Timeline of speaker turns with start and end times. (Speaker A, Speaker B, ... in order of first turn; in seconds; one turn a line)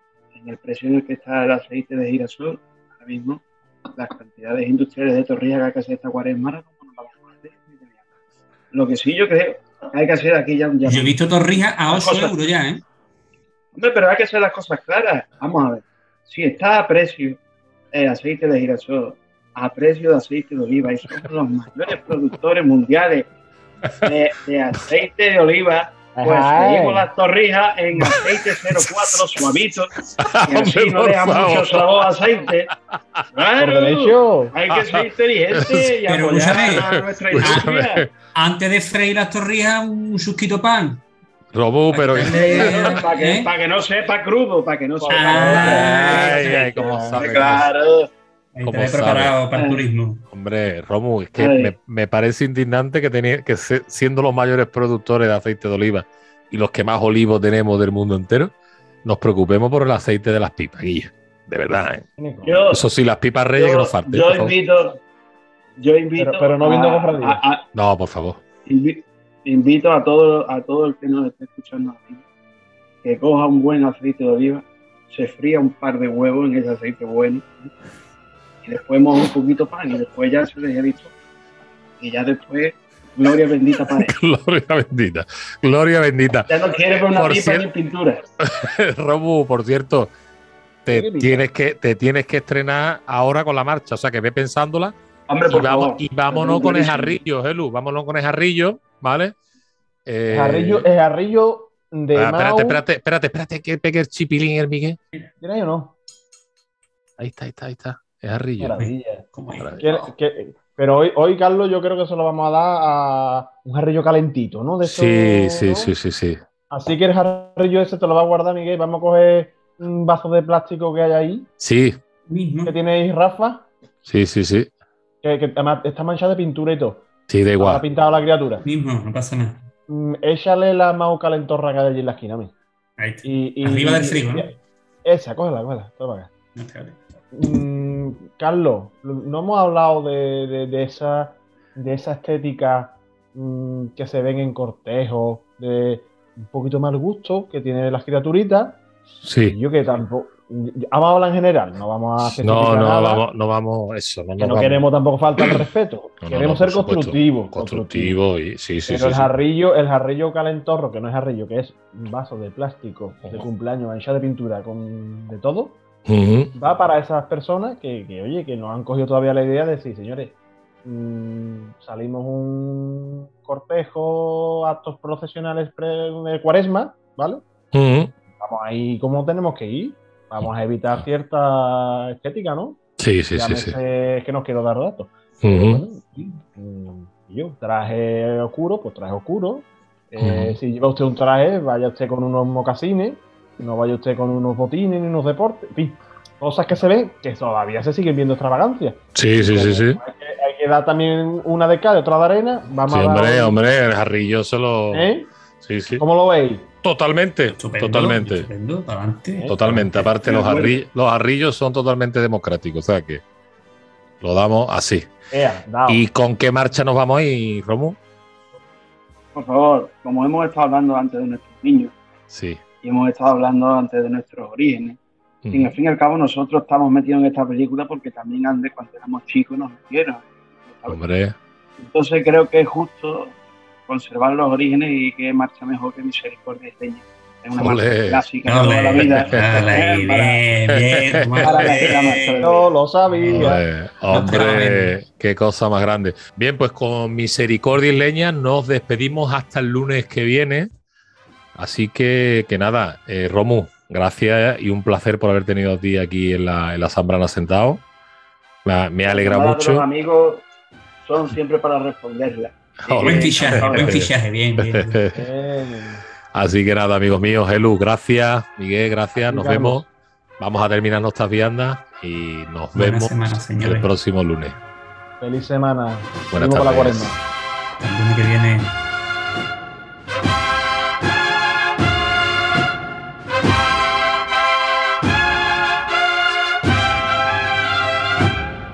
Speaker A: 0.3-3.4
Speaker A: 3.9-8.0
Speaker A: 8.7-11.2
Speaker B: 10.8-12.8
Speaker A: 11.9-12.3
Speaker A: 13.7-17.4
Speaker A: 17.9-23.3
Speaker A: 24.0-29.9
Speaker C: 26.1-27.1
Speaker D: 28.0-29.2
Speaker D: 30.2-32.0
Speaker A: 30.4-32.7
Speaker A: 33.3-38.0
Speaker C: 33.6-34.5
Speaker D: 34.7-35.9
Speaker B: 36.0-37.8
Speaker D: 36.8-38.1
Speaker B: 38.3-41.0
Speaker D: 41.5-43.0
Speaker B: 41.9-43.5
Speaker A: 42.3-48.1
Speaker C: 45.0-47.2
Speaker B: 45.1-46.7
Speaker D: 45.6-47.7
Speaker B: 48.5-50.2
Speaker D: 48.6-49.4
Speaker A: 49.5-49.8
Speaker D: 50.3-62.0
Speaker A: 51.4-51.7
Speaker C: 62.2-62.6
Speaker A: 62.4-62.8
Speaker D: 62.7-64.5
Speaker A: 63.5-65.0
Speaker A: 65.8-67.7
Speaker C: 66.2-67.4
Speaker D: 67.7-68.4
Speaker A: 68.7-72.2
Speaker A: 73.0-77.7
Speaker A: 78.6-81.1
Speaker A: 82.0-84.1
Speaker D: 83.9-86.5
Speaker A: 86.5-88.2
Speaker D: 87.1-87.7
Speaker D: 88.4-90.1
Speaker D: 90.8-95.0
Speaker C: 90.9-91.5
Speaker A: 95.3-97.2
Speaker D: 95.5-99.3
Speaker D: 100.0-100.9
Speaker C: 100.3-102.8
Speaker D: 102.1-105.0
Speaker C: 105.4-105.9
Speaker D: 107.2-108.7
Speaker C: 108.6-109.3
Speaker B: 108.8-110.1
Speaker C: 109.8-115.9
Speaker D: 114.8-116.4
Speaker C: 116.7-121.5
Speaker D: 121.6-122.0
Speaker B: 122.3-122.7
Speaker C: 122.7-123.7
Speaker D: 124.0-124.7
Speaker C: 125.2-127.0
Speaker D: 127.3-127.8
Speaker C: 127.6-128.6
Speaker B: 128.6-129.7
Speaker C: 129.9-132.5
Speaker B: 133.0-134.5
Speaker C: 133.2-136.3
Speaker B: 136.6-137.0
Speaker C: 137.3-148.8
Speaker D: 149.2-149.6
Speaker C: 149.5-153.2
Speaker D: 152.2-154.9
Speaker C: 154.4-158.2
Speaker D: 155.4-155.6
Speaker D: 156.2-159.3
Speaker C: 158.8-165.8
Speaker D: 166.1-166.5
Speaker C: 166.6-177.4
Speaker D: 177.7-178.1
Speaker C: 178.4-182.8
Speaker D: 180.4-181.1
Speaker D: 183.0-183.8
Speaker C: 183.3-203.6
Speaker D: 185.4-185.8
Speaker D: 190.2-190.6
Speaker D: 199.1-200.0
Speaker D: 202.9-206.1
Speaker C: 204.9-205.3
Speaker C: 205.9-206.7
Speaker D: 206.8-208.5
Speaker B: 207.6-210.1
Speaker D: 209.5-213.2
Speaker A: 210.2-210.8
Speaker D: 214.2-215.1
Speaker C: 215.3-216.0
Speaker D: 215.9-218.0
Speaker A: 219.3-221.9
Speaker D: 222.3-222.6
Speaker A: 222.8-225.0
Speaker D: 225.4-225.8
Speaker A: 225.5-231.0
Speaker D: 230.9-231.4
Speaker A: 231.8-240.4
Speaker D: 237.6-238.3
Speaker B: 238.4-242.4
Speaker D: 239.0-239.4
Speaker D: 240.9-241.5
Speaker A: 241.4-242.7
Speaker C: 242.4-243.6
Speaker B: 243.1-243.5
Speaker D: 243.3-250.7
Speaker B: 244.1-244.9
Speaker D: 251.6-257.8
Speaker D: 258.6-259.8
Speaker A: 259.0-260.4
Speaker A: 261.0-263.7
Speaker D: 262.9-265.2
Speaker B: 263.0-265.0
Speaker C: 263.4-264.0
Speaker C: 265.1-266.0
Speaker D: 266.3-269.8
Speaker C: 269.2-269.8
Speaker D: 270.4-274.6
Speaker B: 272.7-273.9
Speaker C: 275.2-277.2
Speaker D: 276.3-277.2
Speaker B: 277.8-278.7